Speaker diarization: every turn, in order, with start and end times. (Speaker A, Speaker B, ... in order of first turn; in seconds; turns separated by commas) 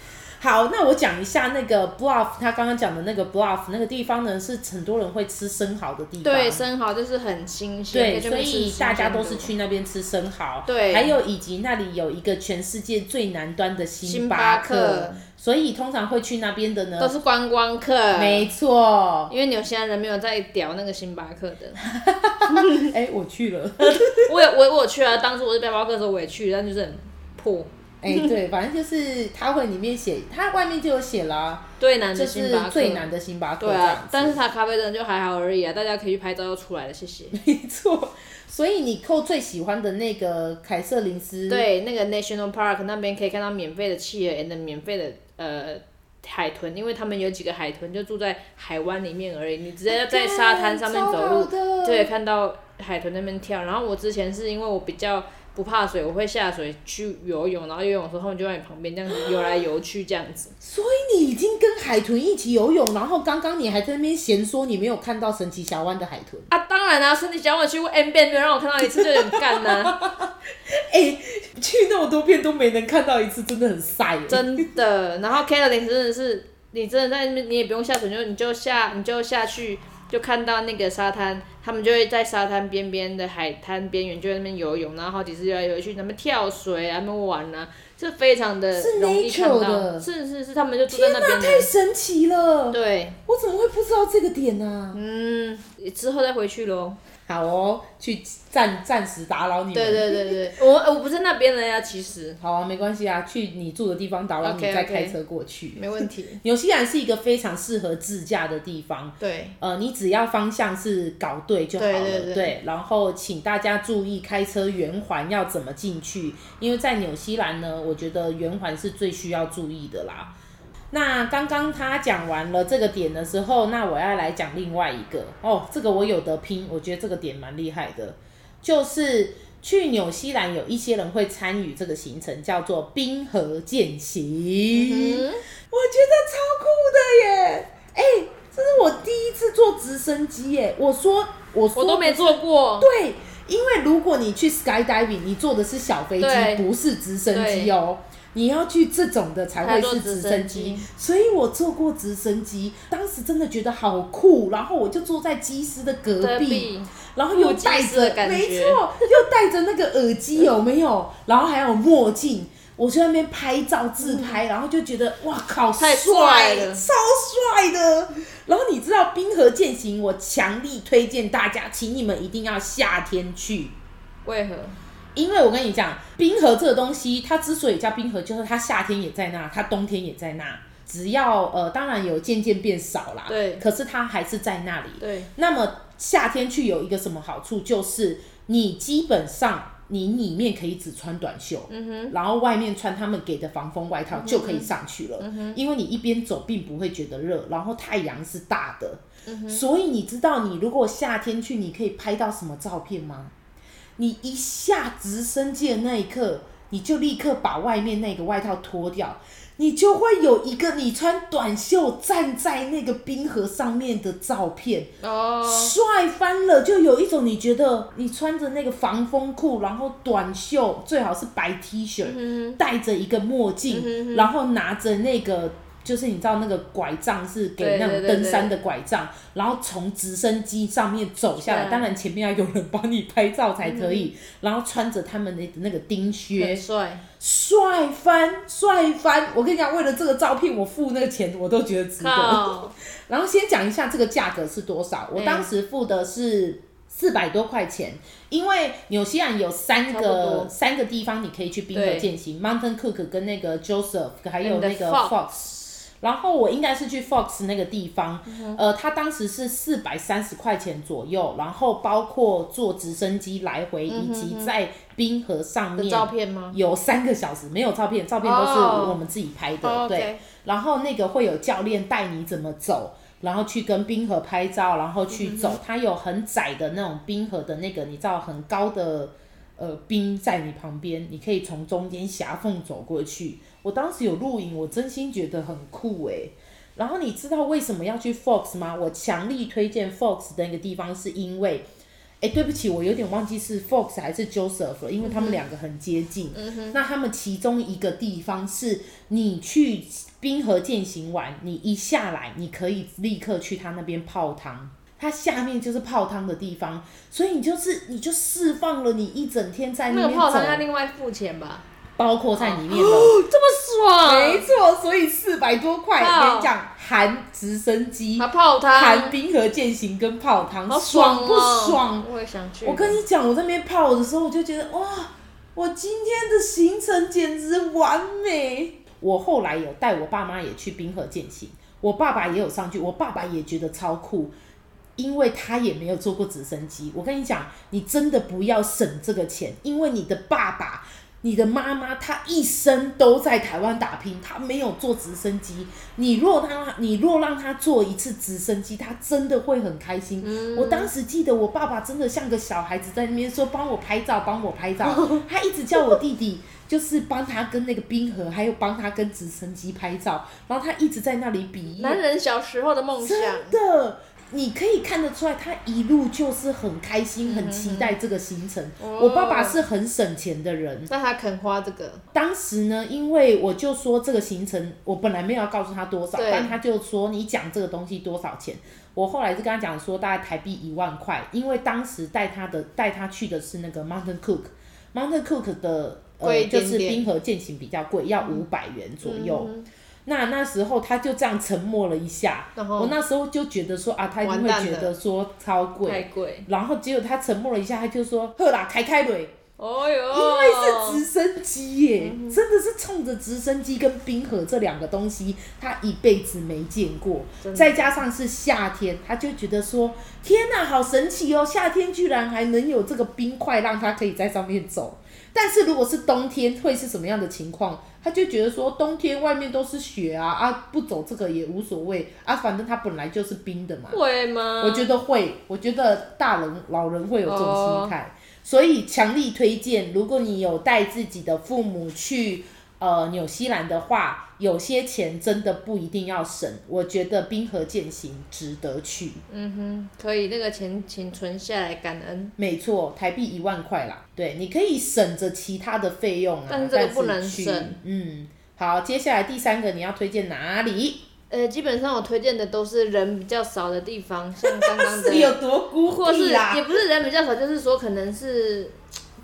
Speaker A: 0.4-6.6, Speaker B: 6.2-9.5, Speaker A: 7.9-17.1, Speaker B: 10.7-11.1, Speaker B: 14.0-15.2, Speaker B: 17.0-18.5, Speaker A: 18.1-19.3, Speaker B: 19.3-21.8, Speaker A: 21.8-24.4, Speaker B: 22.5-22.9, Speaker B: 23.8-28.3, Speaker A: 28.0-34.4, Speaker B: 31.8-33.0, Speaker B: 33.6-37.4, Speaker A: 37.3-41.6, Speaker B: 41.5-60.5, Speaker A: 49.9-52.1, Speaker A: 59.1-59.5, Speaker A: 60.6-66.5, Speaker B: 66.5-70.0, Speaker A: 68.9-74.6, Speaker B: 74.3-91.7, Speaker A: 88.7-90.0, Speaker A: 90.9-95.0, Speaker B: 92.7-93.2, Speaker B: 94.9-97.0, Speaker A: 97.2-100.3, Speaker B: 99.7-102.4, Speaker A: 102.4-120.3, Speaker B: 104.4-105.2, Speaker B: 105.7-106.4, Speaker B: 109.2-109.6, Speaker B: 111.8-112.5, Speaker A: 120.9-173.7, Speaker B: 134.7-135.4, Speaker B: 141.7-142.9, Speaker B: 146.2-146.7, Speaker B: 147.3-147.7, Speaker B: 149.6-150.9, Speaker B: 156.2-159.1, Speaker B: 164.0-164.4, Speaker B: 165.8-166.8, Speaker B: 174.2-174.8, Speaker A: 175.1-203.3, Speaker B: 183.3-183.6, Speaker B: 185.0-185.3, Speaker B: 191.7-192.1, Speaker B: 194.1-195.6, Speaker B: 199.2-199.6, Speaker A: 204.0-214.9, Speaker B: 215.0-215.7, Speaker A: 215.4-236.6, Speaker B: 222.0-222.6, Speaker B: 223.7-224.3, Speaker B: 227.6-228.5, Speaker B: 231.4-231.9, Speaker B: 233.6-234.1, Speaker B: 236.3-237.0, Speaker A: 237.2-291.6, Speaker B: 242.0-242.7, Speaker B: 245.1-245.5, Speaker B: 249.9-250.5, Speaker B: 251.7-252.1, Speaker B: 254.4-255.7, Speaker B: 258.3-258.6, Speaker B: 263.9-264.5, Speaker B: 265.8-266.6, Speaker B: 268.2-269.0, Speaker B: 269.6-270.2, Speaker B: 275.1-275.6, Speaker A: 292.2-310.6, Speaker B: 295.0-295.4, Speaker B: 296.3-296.8, Speaker B: 309.9-311.6, Speaker A: 312.0-313.2, Speaker B: 312.4-314.5, Speaker A: 314.0-322.1, Speaker B: 316.0-316.5, Speaker B: 318.2-319.2, Speaker B: 320.7-323.0, Speaker A: 322.6-334.3, Speaker A: 335.0-362.0, Speaker B: 350.2-350.9, Speaker B: 354.8-355.2, Speaker B: 361.8-363.6, Speaker A: 363.0-370.9, Speaker B: 367.2-367.9, Speaker B: 368.8-369.6, Speaker B: 370.9-372.0, Speaker A: 372.1-389.5, Speaker B: 376.1-376.5, Speaker B: 386.2-387.0, Speaker B: 389.0-389.7, Speaker A: 390.1-399.4, Speaker B: 392.6-392.9, Speaker B: 394.2-394.9, Speaker B: 395.8-396.5, Speaker B: 399.6-401.0, Speaker A: 400.1-424.0, Speaker B: 402.0-402.4, Speaker B: 407.4-407.8, Speaker B: 423.9-424.9, Speaker A: 424.6-439.2, Speaker B: 427.2-427.9, Speaker B: 439.3-442.3, Speaker A: 442.4-451.0, Speaker B: 446.5-447.8, Speaker B: 451.3-458.8, Speaker A: 454.4-456.7